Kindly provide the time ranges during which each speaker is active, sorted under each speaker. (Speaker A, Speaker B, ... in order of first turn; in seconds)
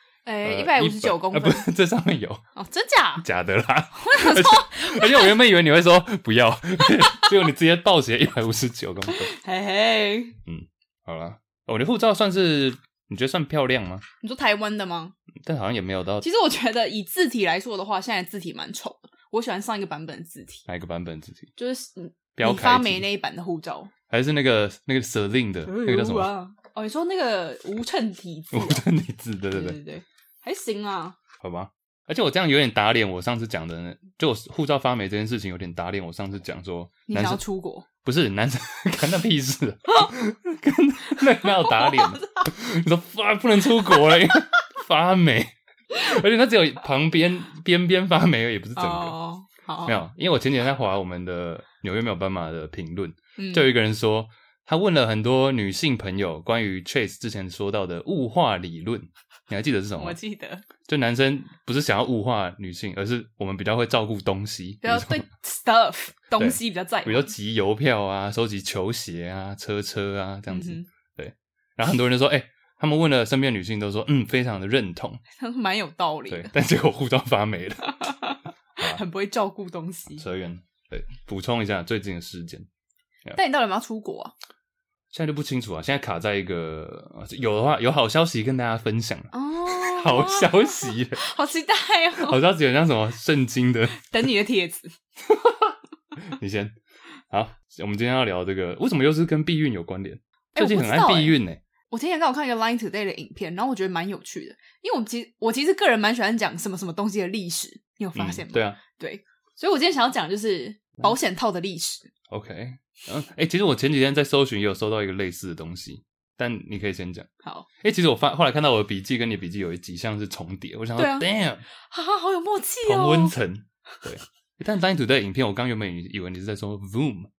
Speaker A: 0.2-1.7, 2.6-3.2, 4.0-5.4, 6.8-7.3, 9.1-10.4, 14.2-15.2, 16.2-20.6, 21.6-23.9, 25.7-28.9, 29.5-31.2, 37.1-37.9, 41.2-42.5, 43.9-44.2, 48.8-50.0, 53.4-53.7, 60.0-60.7, 64.8-67.3, 70.5-70.9, 75.4-76.5, 77.8-80.2, 83.4-84.3, 89.3-92.4, 93.9-95.0, 100.5-101.4, 101.9-112.1, 117.4-117.7, 121.0-123.3
Speaker B: 0.4-2.4, 3.2-9.3, 10.5-14.0, 15.4-16.3, 20.7-21.5, 22.4-23.1, 24.1-26.3, 28.5-29.8, 31.4-37.4, 38.0-49.2, 49.9-60.2, 60.9-65.2, 66.4-75.2, 76.3-78.1, 80.1-82.7, 85.1-91.2, 92.2-94.1, 95.3-96.8, 97.3-101.6, 108.2-108.8, 112.3-117.3, 117.8-121.7, 122.8-127.3